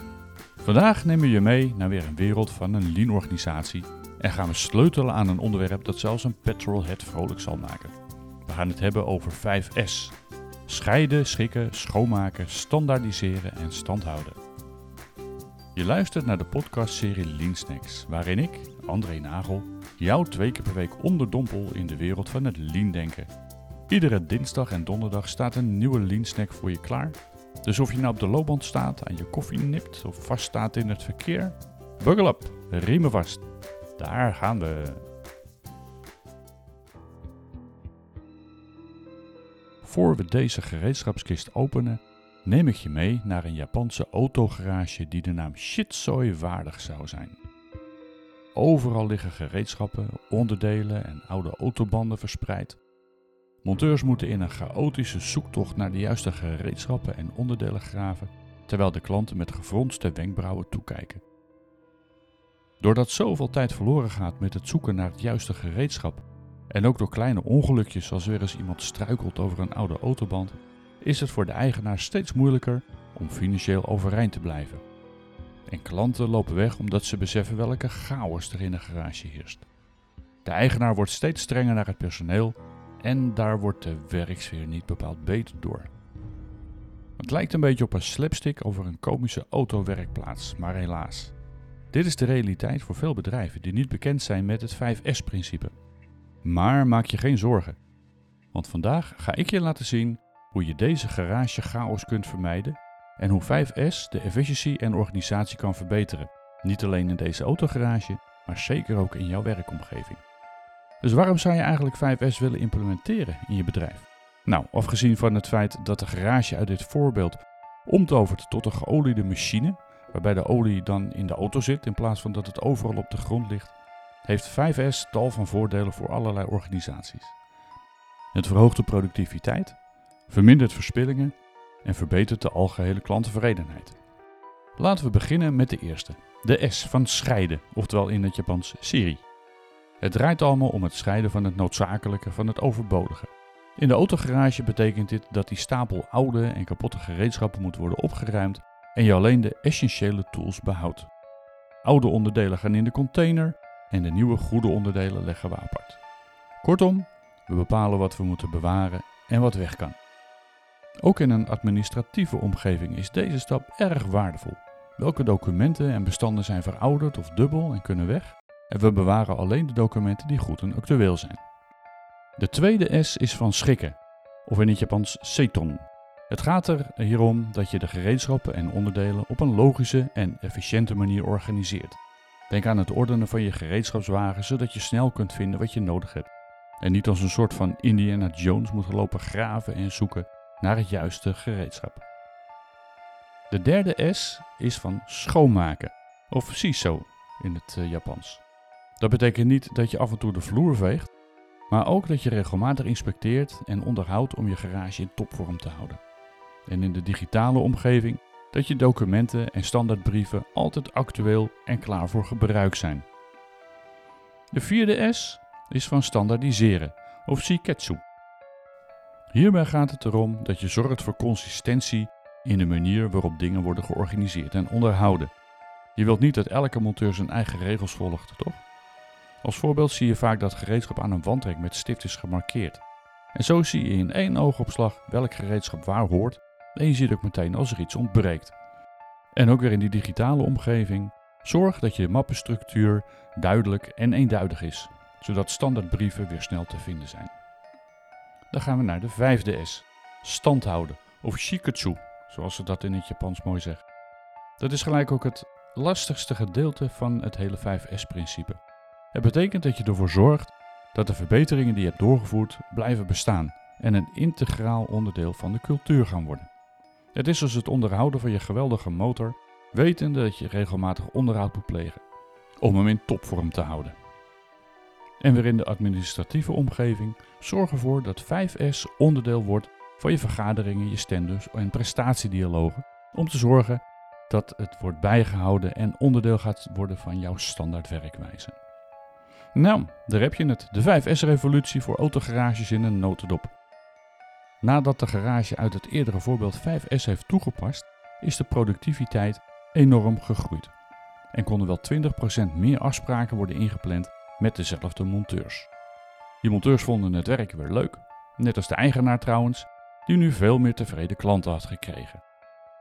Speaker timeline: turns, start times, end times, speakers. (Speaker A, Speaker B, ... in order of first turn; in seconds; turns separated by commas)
Speaker A: 0.6-14.4, Speaker A: 15.7-23.3, Speaker A: 23.9-33.4, Speaker A: 34.0-35.0, Speaker A: 39.8-47.4, Speaker A: 48.5-52.8, Speaker A: 53.6-61.2, Speaker A: 62.8-74.8, Speaker A: 75.7-79.7, Speaker A: 80.4-85.9, Speaker A: 87.2-91.3, Speaker A: 91.9-95.7, Speaker A: 96.4-97.8, Speaker A: 98.5-110.2, Speaker A: 111.0-123.7, Speaker A: 124.2-127.3, Speaker A: 128.3-129.8, Speaker A: 130.3-134.0, Speaker A: 134.8-139.2, Speaker A: 140.0-151.1, Speaker A: 151.8-156.0, Speaker A: 156.6-160.0, Speaker A: 161.0-171.4, Speaker A: 172.4-182.0, Speaker A: 182.5-192.0, Speaker A: 193.5-198.4, Speaker A: 199.0-201.1, Speaker A: 201.7-206.0, Speaker A: 206.7-213.1, Speaker A: 214.5-218.0, Speaker A: 219.3-225.3, Speaker A: 225.9-228.6, Speaker A: 229.4-232.8, Speaker A: 233.3-238.5, Speaker A: 239.3-247.3, Speaker A: 248.5-253.8, Speaker A: 254.6-258.6, Speaker A: 259.1-266.5, Speaker A: 267.1-272.0, Speaker A: 272.6-273.9, Speaker A: 275.2-288.6, Speaker A: 289.5-293.5, Speaker A: 294.6-300.7, Speaker A: 301.3-305.7, Speaker A: 306.4-312.2